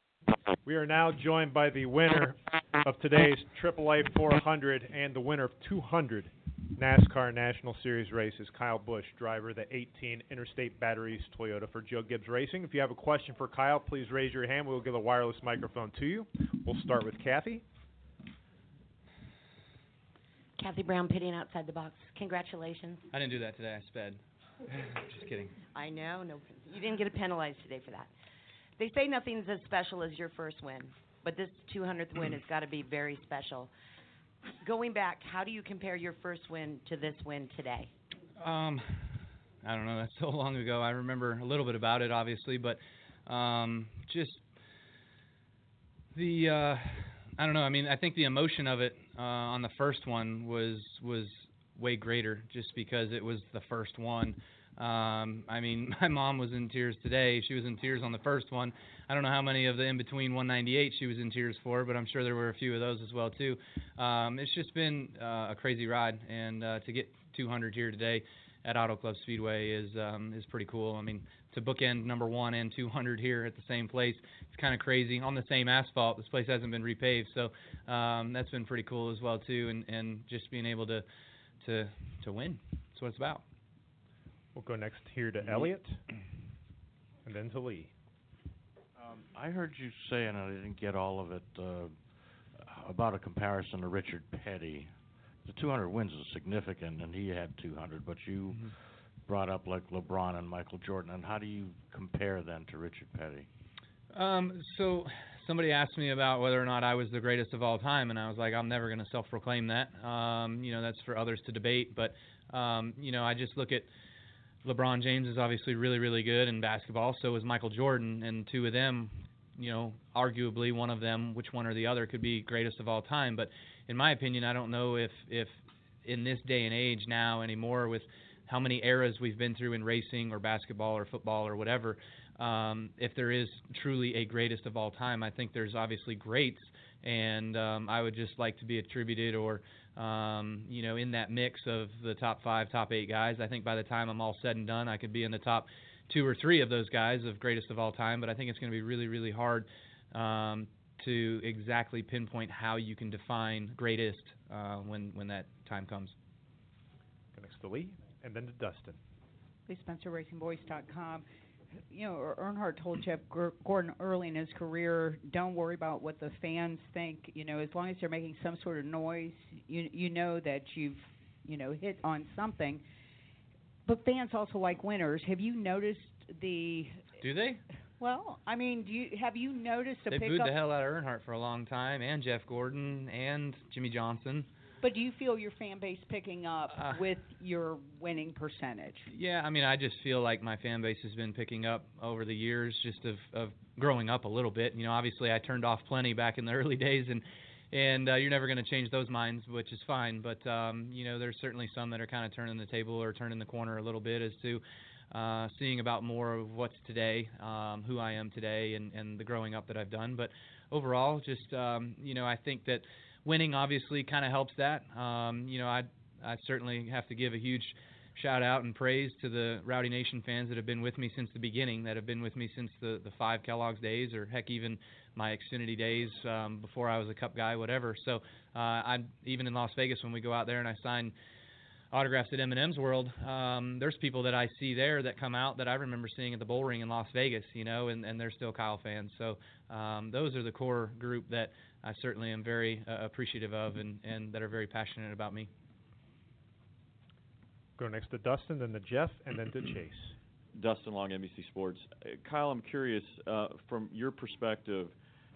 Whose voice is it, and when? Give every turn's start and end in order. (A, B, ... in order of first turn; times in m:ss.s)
0:00.6-0:17.6 A
0:20.6-0:23.0 B
0:23.1-0:24.2 C
0:24.9-0:25.6 C
0:25.7-0:28.1 B
0:28.8-0:33.7 B
0:34.6-0:37.9 B
0:38.4-0:39.1 C
0:39.6-0:44.5 C
0:46.1-1:21.0 C
1:21.6-1:23.4 C
1:24.5-1:26.0 A
1:27.2-1:27.9 A
1:29.1-1:32.0 D
1:32.6-1:34.9 D
1:35.4-1:38.6 D
1:39.3-1:43.5 D
1:44.1-1:53.9 C
1:54.6-2:36.2 C
2:37.3-2:39.0 A
2:39.7-2:41.3 E
2:41.9-2:52.8 E
2:53.9-2:57.0 E
2:57.2-2:57.6 C
2:58.0-3:00.6 E
3:00.1-3:04.5 C
3:04.8-3:09.1 E
3:09.1-3:51.1 C
3:51.9-4:05.5 C
4:07.8-4:10.2 A
4:10.6-4:15.0 F